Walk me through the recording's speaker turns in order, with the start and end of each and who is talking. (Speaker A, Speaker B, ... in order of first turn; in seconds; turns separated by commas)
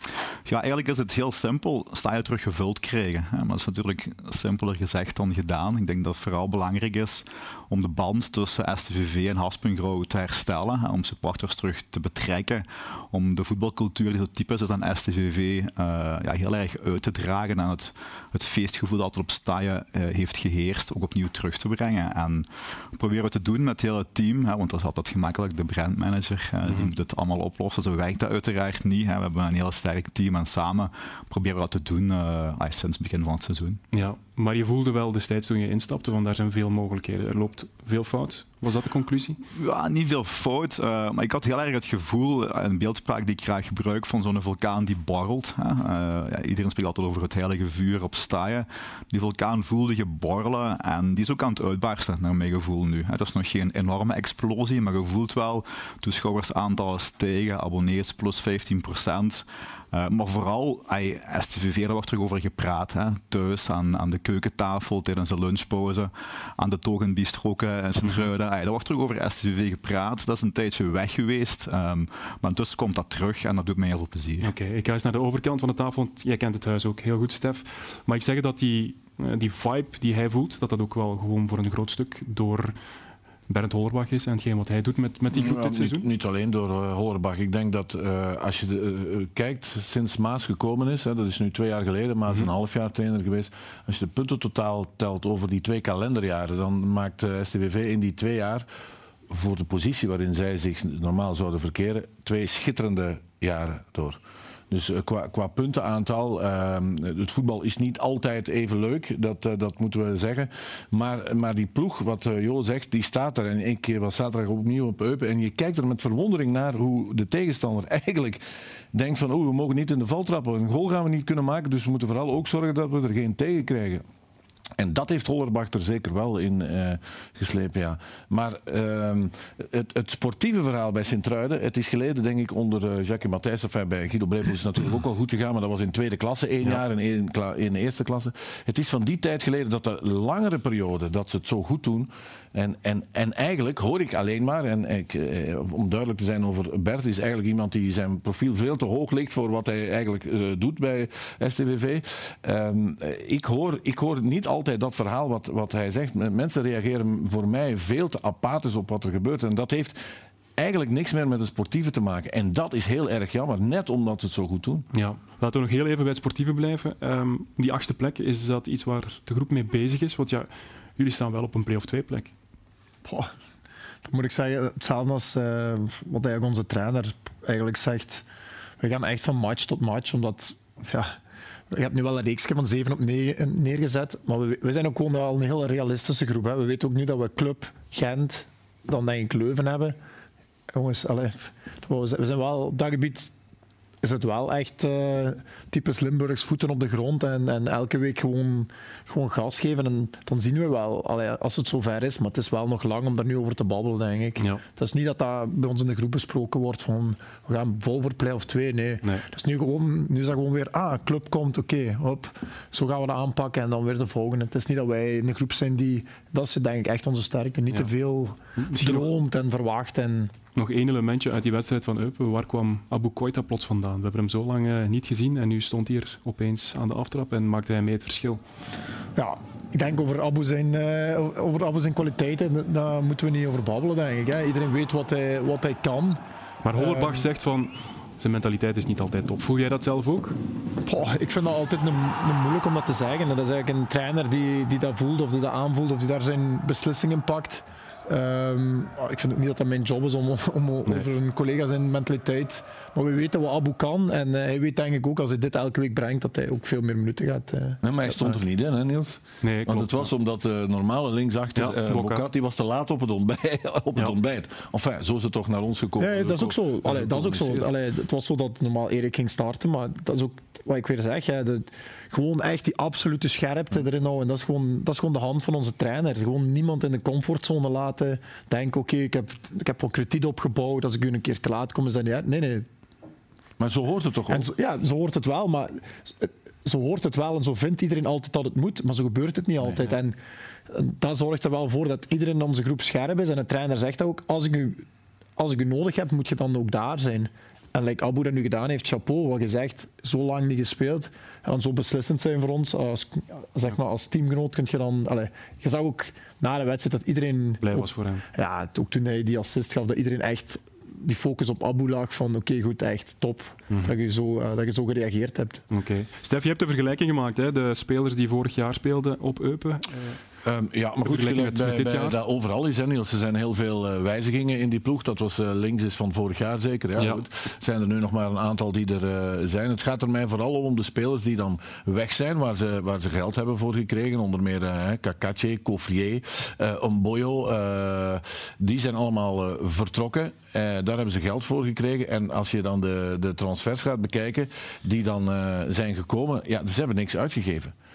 Speaker A: 0.5-33.8, Speaker B: 26.6-26.9, Speaker B: 33.9-39.4, Speaker A: 39.5-74.5, Speaker B: 68.0-68.3, Speaker B: 74.4-82.7, Speaker B: 83.5-86.1, Speaker C: 85.3-98.6, Speaker C: 99.3-104.2, Speaker C: 104.7-118.4, Speaker C: 118.9-124.0, Speaker C: 124.8-160.0, Speaker C: 160.6-164.9, Speaker B: 164.9-172.3, Speaker D: 173.1-173.3, Speaker D: 174.1-178.2, Speaker D: 178.8-181.1, Speaker D: 181.7-190.0, Speaker D: 190.7-193.3, Speaker D: 194.0-220.3, Speaker B: 218.6-219.1, Speaker B: 220.6-228.4, Speaker D: 229.2-236.2, Speaker B: 236.6-240.4, Speaker D: 236.7-237.3, Speaker D: 240.8-258.4, Speaker C: 257.8-267.7, Speaker B: 259.4-260.1, Speaker B: 261.6-262.2, Speaker D: 266.0-282.6, Speaker C: 283.6-284.5, Speaker D: 284.3-290.1, Speaker D: 290.7-294.8, Speaker D: 295.4-315.6, Speaker B: 307.6-308.2, Speaker B: 315.7-320.2, Speaker C: 320.4-347.7, Speaker B: 321.0-322.2, Speaker B: 326.9-327.2